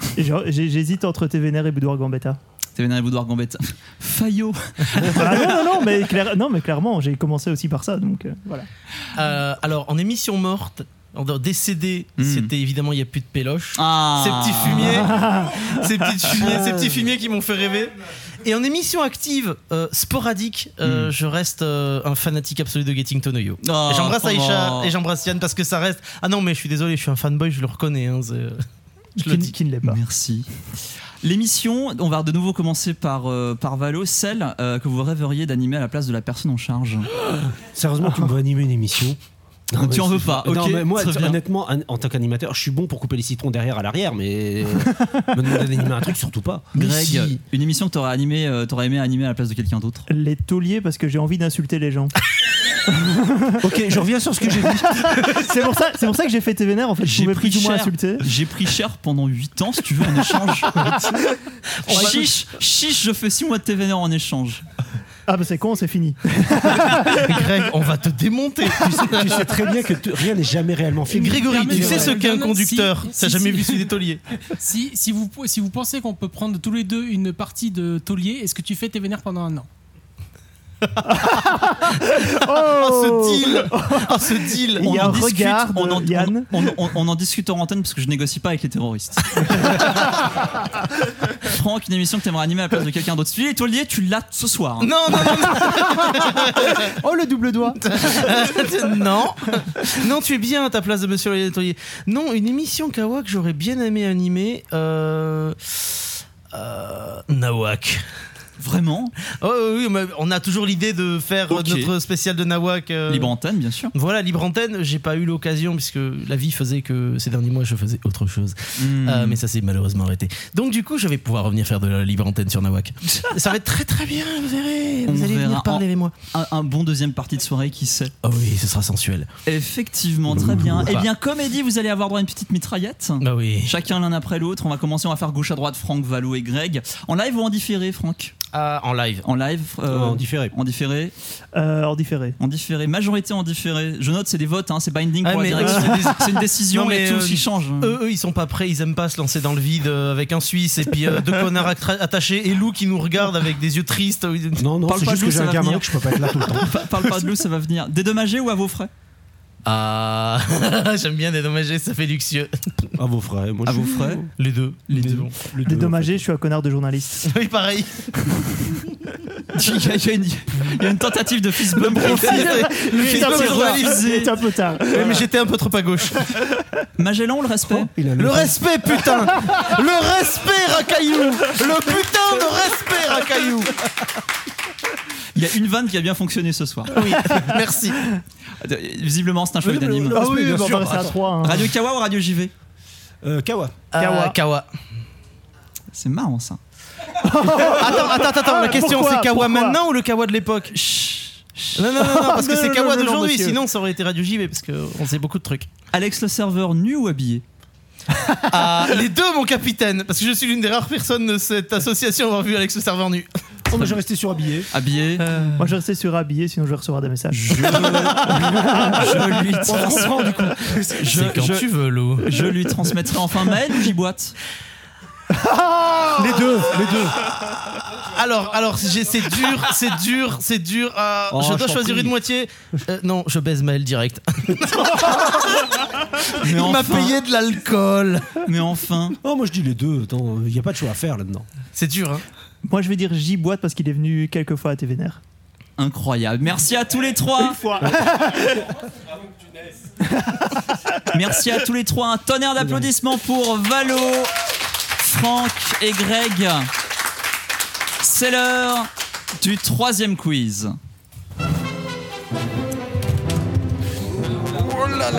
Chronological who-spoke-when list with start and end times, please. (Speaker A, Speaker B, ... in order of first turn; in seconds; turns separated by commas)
Speaker A: 0.1-2.4, Speaker B: 2.8-5.8, Speaker A: 5.1-8.7, Speaker C: 9.1-28.6, Speaker B: 12.2-12.5, Speaker B: 13.8-15.0, Speaker A: 14.9-16.3, Speaker D: 16.6-16.9, Speaker B: 20.8-21.1, Speaker B: 23.6-24.9, Speaker A: 29.2-30.0, Speaker C: 29.2-29.5, Speaker B: 29.8-30.5, Speaker B: 31.2-37.1, Speaker D: 37.6-39.2, Speaker D: 39.7-47.4, Speaker B: 39.7-41.4, Speaker B: 46.8-50.0, Speaker A: 50.1-52.1, Speaker A: 52.9-53.7, Speaker D: 53.6-55.4, Speaker A: 54.5-58.2, Speaker B: 57.0-60.7, Speaker B: 61.9-64.6, Speaker A: 62.0-62.2, Speaker A: 65.3-67.2, Speaker C: 66.8-69.5, Speaker D: 69.0-72.0, Speaker E: 71.1-73.9, Speaker C: 71.1-74.2, Speaker E: 74.6-79.7, Speaker C: 81.1-85.1, Speaker A: 81.1-86.7, Speaker B: 84.8-89.8, Speaker B: 91.4-95.4, Speaker C: 94.8-96.9, Speaker A: 97.0-97.8, Speaker C: 97.8-106.0, Speaker C: 106.5-108.0, Speaker B: 108.6-109.1, Speaker C: 109.4-113.3, Speaker B: 111.5-111.9, Speaker B: 113.1-113.9, Speaker C: 113.9-126.1, Speaker B: 118.8-119.4, Speaker B: 125.0-128.1, Speaker C: 128.2-129.3, Speaker B: 129.4-138.3, Speaker D: 130.3-131.1, Speaker C: 133.2-133.7, Speaker C: 138.5-139.2, Speaker B: 139.2-141.1, Speaker D: 139.9-140.5, Speaker A: 141.5-142.4, Speaker B: 142.4-147.9, Speaker C: 145.2-154.6, Speaker D: 154.6-156.7, Speaker B: 154.9-158.9, Speaker C: 159.6-162.5, Speaker D: 163.0-164.3, Speaker B: 163.7-164.2, Speaker C: 164.4-165.3, Speaker D: 164.9-166.2, Speaker A: 165.5-167.2, Speaker C: 167.2-168.0, Speaker B: 169.5-174.3, Speaker C: 171.8-174.1, Speaker A: 172.0-175.1, Speaker C: 174.9-176.3, Speaker B: 177.0-177.9, Speaker D: 177.7-178.7, Speaker C: 178.2-183.7, Speaker B: 185.3-187.0, Speaker C: 186.9-188.0, Speaker B: 188.6-190.2, Speaker A: 189.7-191.7, Speaker D: 189.9-191.3, Speaker B: 191.4-192.5, Speaker D: 193.2-193.8, Speaker C: 193.9-194.7, Speaker A: 194.0-194.4, Speaker B: 195.9-196.6, Speaker A: 197.2-199.8, Speaker C: 197.7-200.8, Speaker B: 200.8-201.7, Speaker C: 201.7-205.7, Speaker A: 202.0-203.6, Speaker B: 205.9-207.4, Speaker C: 208.5-213.3, Speaker D: 213.7-214.7, Speaker B: 214.7-215.6, Speaker C: 215.3-215.5, Speaker A: 215.6-219.1, Speaker D: 217.4-218.6, Speaker B: 217.5-220.3, Speaker D: 219.7-220.9, Speaker C: 220.9-222.4, Speaker B: 221.0-221.7, Speaker B: 222.2-224.4, Speaker D: 226.2-227.1, Speaker C: 226.7-227.6, Speaker C: 228.1-235.8, Speaker D: 231.3-232.0, Speaker C: 236.4-238.3, Speaker B: 236.4-237.1, Speaker B: 238.4-239.2, Speaker D: 239.2-241.5, Speaker C: 241.7-242.2, Speaker A: 242.7-245.2, Speaker B: 245.8-247.6, Speaker A: 247.4-248.5, Speaker B: 251.1-254.3, Speaker B: 255.0-256.7, Speaker B: 258.0-260.8